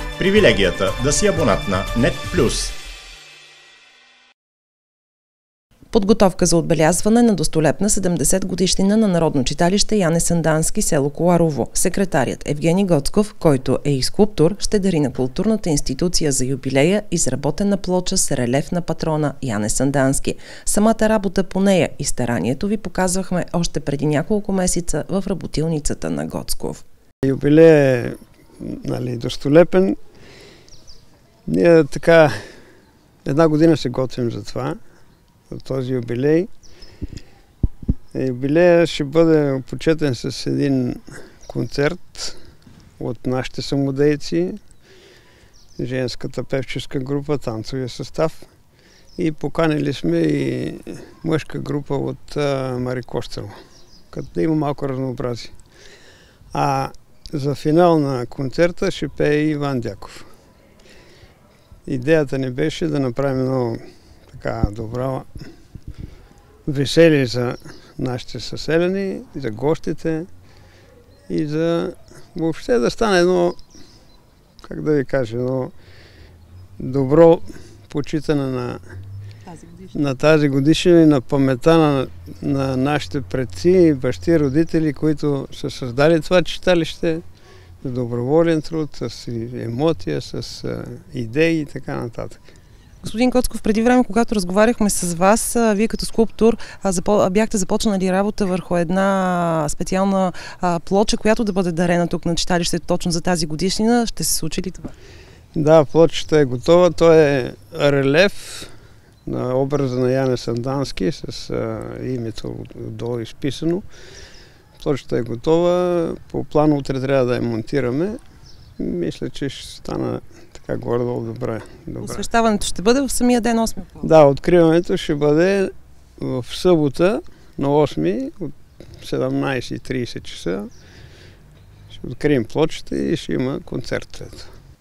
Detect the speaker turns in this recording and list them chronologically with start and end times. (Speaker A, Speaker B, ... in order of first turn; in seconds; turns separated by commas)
Speaker A: 0.2-2.7, Speaker B: 5.9-26.8, Speaker C: 27.2-30.0, Speaker C: 31.4-32.4, Speaker C: 33.2-34.8, Speaker C: 35.5-36.5, Speaker C: 38.1-42.4, Speaker C: 43.0-44.6, Speaker C: 45.8-48.5, Speaker C: 49.2-53.5, Speaker C: 54.1-55.5, Speaker C: 56.5-60.3, Speaker C: 61.9-65.3, Speaker C: 66.7-70.3, Speaker C: 71.3-73.6, Speaker C: 74.6-75.7, Speaker C: 76.8-78.8, Speaker C: 79.9-87.2, Speaker C: 87.8-92.5, Speaker B: 93.0-104.9, Speaker C: 105.5-108.7, Speaker C: 109.2-113.8, Speaker C: 114.8-118.2, Speaker C: 118.8-122.2, Speaker B: 122.0-124.1, Speaker C: 124.0-130.7, Speaker C: 131.9-134.5